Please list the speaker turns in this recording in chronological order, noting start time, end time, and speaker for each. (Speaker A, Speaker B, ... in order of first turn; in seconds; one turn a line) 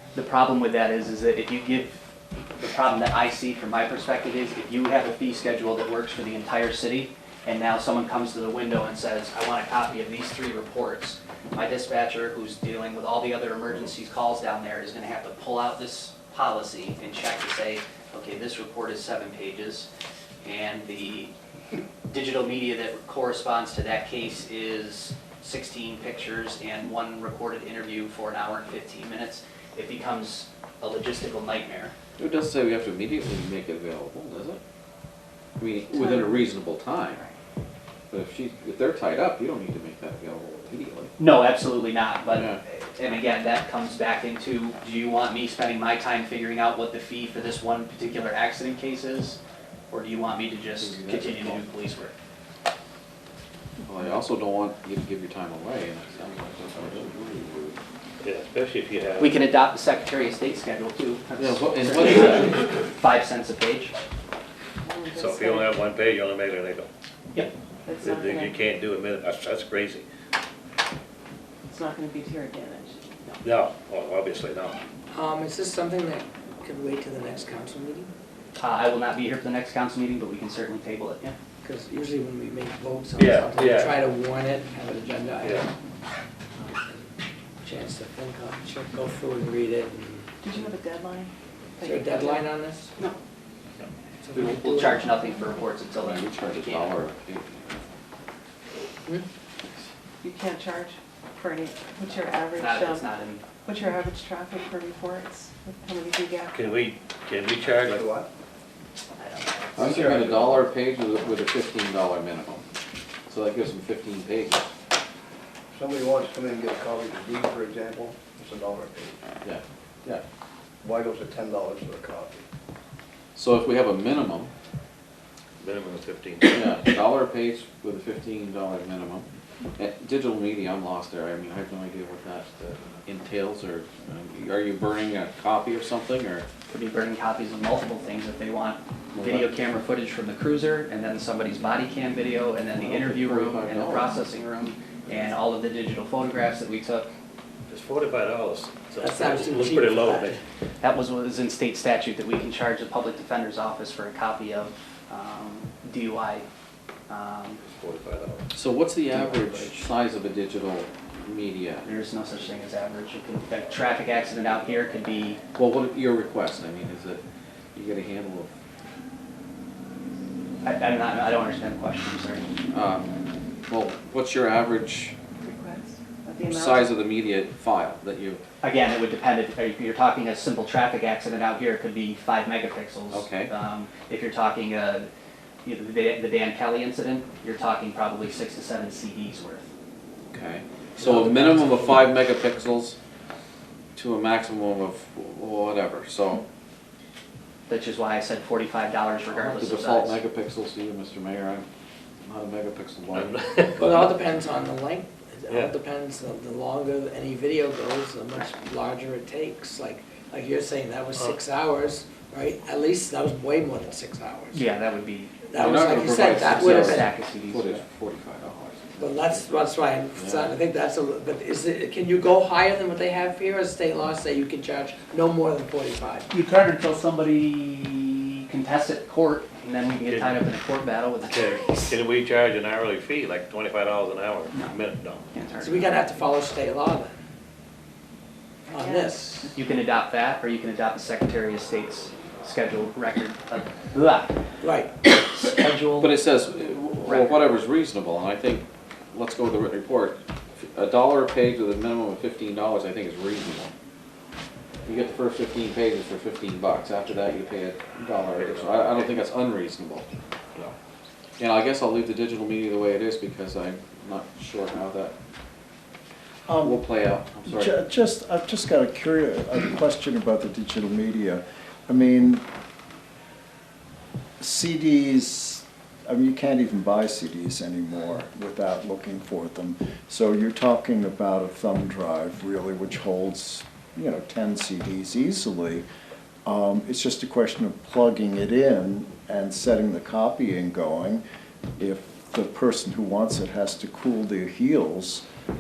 Speaker A: 0.1-19.9
Speaker A: 20.4-21.3
Speaker A: 22.1-31.9
Speaker B: 32.2-34.6
Speaker B: 35.6-37.3
Speaker B: 38.1-41.1
Speaker A: 41.2-49.4
Speaker B: 42.3-42.6
Speaker A: 49.9-52.1
Speaker B: 50.8-51.6
Speaker B: 53.8-57.7
Speaker C: 58.2-59.3
Speaker A: 59.2-63.9
Speaker B: 61.4-62.6
Speaker D: 64.8-65.7
Speaker C: 65.1-66.9
Speaker D: 67.8-68.5
Speaker C: 68.0-70.0
Speaker D: 71.7-73.0
Speaker C: 73.4-74.8
Speaker E: 75.1-78.1
Speaker A: 78.5-81.3
Speaker E: 81.6-85.6
Speaker C: 83.2-84.0
Speaker C: 85.4-85.7
Speaker E: 87.6-90.3
Speaker D: 90.4-92.5
Speaker E: 91.8-92.9
Speaker E: 94.2-95.1
Speaker A: 94.3-97.0
Speaker B: 96.0-97.8
Speaker D: 100.2-103.1
Speaker A: 102.5-103.4
Speaker D: 103.6-106.5
Speaker C: 106.5-108.1
Speaker F: 107.6-108.3
Speaker A: 109.2-110.7
Speaker B: 109.8-112.6
Speaker B: 113.3-114.7
Speaker F: 115.7-119.2
Speaker B: 119.4-120.2
Speaker F: 120.8-122.5
Speaker B: 123.3-124.5
Speaker C: 125.6-126.7
Speaker B: 126.5-129.2
Speaker B: 129.8-136.4
Speaker A: 136.7-147.1
Speaker B: 139.1-139.5
Speaker B: 142.8-144.1
Speaker C: 145.1-145.3
Speaker C: 147.7-150.4
Speaker E: 149.0-150.4
Speaker A: 150.8-156.5
Speaker A: 157.1-157.6
Speaker C: 157.6-158.4
Speaker B: 158.5-161.8
Speaker A: 159.1-159.7
Speaker A: 161.8-165.4
Speaker B: 165.6-167.2
Speaker B: 167.7-168.5
Speaker A: 170.6-172.4
Speaker B: 172.7-173.1
Speaker B: 173.7-175.1
Speaker D: 175.4-176.9
Speaker B: 176.5-178.4
Speaker A: 178.6-185.1
Speaker B: 183.1-183.5
Speaker A: 185.6-189.7
Speaker B: 190.3-192.9
Speaker B: 193.9-196.4
Speaker A: 197.7-200.2
Speaker B: 199.3-201.7
Speaker B: 202.2-204.1
Speaker C: 203.1-203.9
Speaker E: 203.8-214.6
Speaker A: 214.5-217.8
Speaker E: 215.5-217.1
Speaker B: 215.6-219.5
Speaker E: 219.0-226.3
Speaker B: 220.1-220.6
Speaker A: 226.3-232.0
Speaker C: 230.1-230.4
Speaker C: 231.3-235.3
Speaker A: 235.3-236.0
Speaker E: 235.6-237.1
Speaker E: 238.7-239.5
Speaker D: 238.8-239.5
Speaker A: 239.5-244.3
Speaker E: 244.6-244.9
Speaker A: 245.3-246.1
Speaker B: 246.0-253.7
Speaker A: 247.0-247.4
Speaker B: 254.8-260.0
Speaker C: 258.3-259.2
Speaker B: 261.4-265.1
Speaker G: 266.5-266.8
Speaker B: 266.6-267.7
Speaker G: 267.4-272.4
Speaker G: 274.4-285.9
Speaker G: 286.4-291.2
Speaker G: 291.8-295.2